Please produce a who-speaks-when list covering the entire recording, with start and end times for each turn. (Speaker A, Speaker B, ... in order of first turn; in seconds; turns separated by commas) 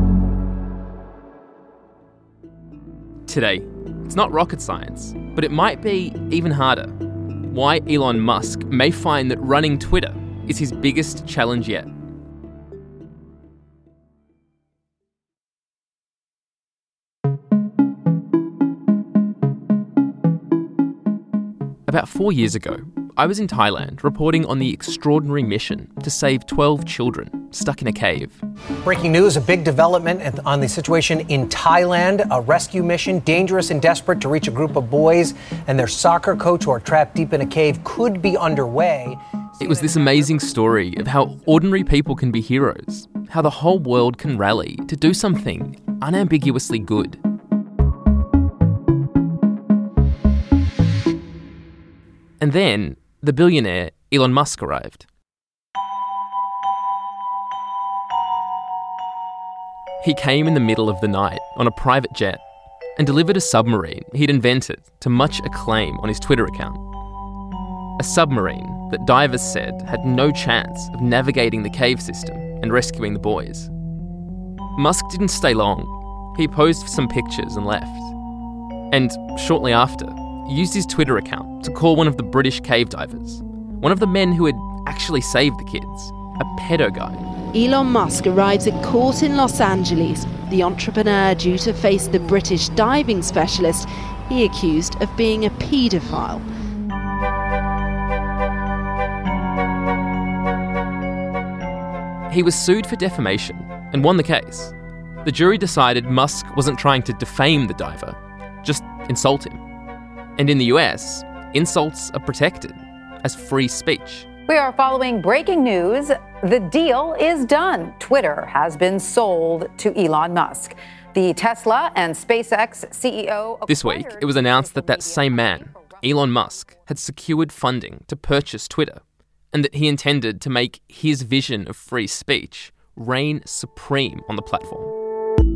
Speaker A: 3.3-11.9, Speaker A: 21.9-28.4, Speaker B: 28.8-39.2, Speaker A: 39.6-47.2, Speaker C: 39.6-40.4, Speaker A: 52.4-55.0, Speaker A: 60.0-62.4, Speaker A: 63.0-66.8, Speaker A: 68.0-73.7, Speaker A: 74.8-78.1, Speaker A: 78.9-87.2, Speaker D: 87.5-96.5, Speaker A: 102.3-104.7, Speaker A: 105.2-109.6, Speaker A: 110.4-114.3, Speaker C: 114.5-126.7, Speaker A: 123.7-129.0, Speaker A: 129.5-134.9